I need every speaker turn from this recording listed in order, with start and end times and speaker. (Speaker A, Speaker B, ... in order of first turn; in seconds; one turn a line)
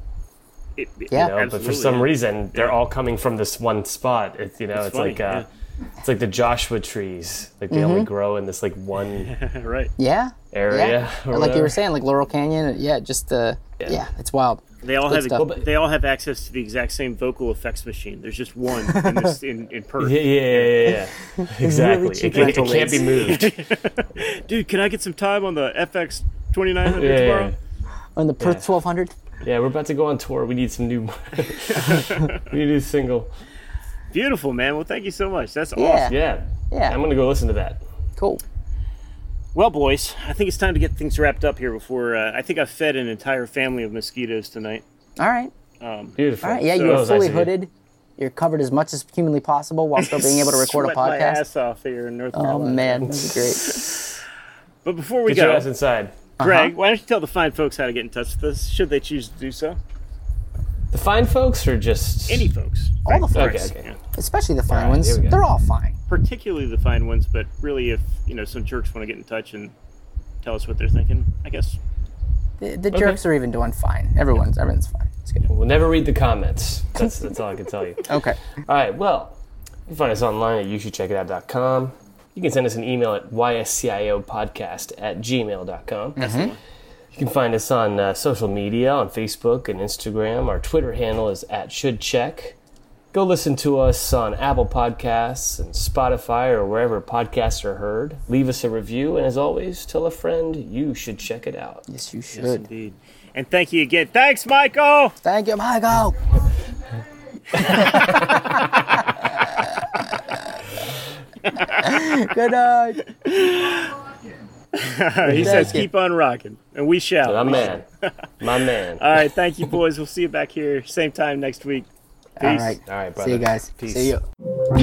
Speaker A: 0.8-2.8
Speaker B: 1.1-5.5
Speaker A: 4.7-5.5
Speaker B: 6.0-9.3
Speaker C: 7.7-8.1
Speaker A: 9.2-9.9
Speaker C: 10.0-15.5
Speaker B: 10.5-11.8
Speaker B: 13.8-14.0
Speaker A: 14.8-21.0
Speaker C: 18.9-19.3
Speaker B: 20.0-23.6
Speaker C: 21.6-23.3
Speaker A: 22.3-27.5
Speaker B: 26.9-27.6
Speaker C: 28.1-29.1
Speaker B: 28.4-28.7
Speaker B: 29.4-33.3
Speaker A: 31.7-32.4
Speaker A: 34.1-36.1
Speaker C: 35.7-36.1
Speaker B: 36.1-37.8
Speaker C: 36.7-37.0
Speaker C: 38.2-38.4
Speaker A: 39.5-44.8
Speaker C: 45.2-45.5
Speaker A: 45.8-47.1
Speaker B: 46.2-47.5
Speaker C: 46.4-51.4
Speaker A: 50.0-53.9
Speaker C: 52.3-53.9
Speaker B: 53.1-53.7
Speaker A: 54.8-55.7
Speaker B: 55.2-56.2
Speaker C: 56.4-56.7
Speaker A: 56.4-59.8
Speaker B: 60.9-62.5
Speaker A: 62.3-64.0
Speaker C: 63.0-66.0
Speaker B: 63.3-63.8
Speaker B: 64.7-65.4
Speaker A: 66.1-69.7
Speaker A: 70.4-71.8
Speaker C: 72.6-75.5
Speaker B: 72.9-73.2
Speaker B: 75.5-79.4
Speaker C: 78.0-78.4
Speaker B: 79.9-86.2
Speaker A: 86.2-86.6
Speaker C: 86.2-86.5
Speaker B: 87.1-92.6
Speaker B: 93.1-101.8
Speaker C: 101.9-102.6
Speaker A: 102.3-105.2
Speaker C: 105.2-106.2
Speaker C: 107.5-108.6
Speaker B: 107.7-108.0
Speaker C: 109.4-109.6
Speaker A: 111.5-111.8
Speaker C: 111.8-113.1
Speaker A: 113.2-113.9
Speaker A: 114.7-118.1
Speaker C: 115.2-115.9
Speaker B: 115.4-115.8
Speaker B: 117.2-117.8
Speaker B: 118.4-119.0
Speaker A: 119.0-121.9
Speaker C: 122.4-124.2
Speaker B: 122.4-124.1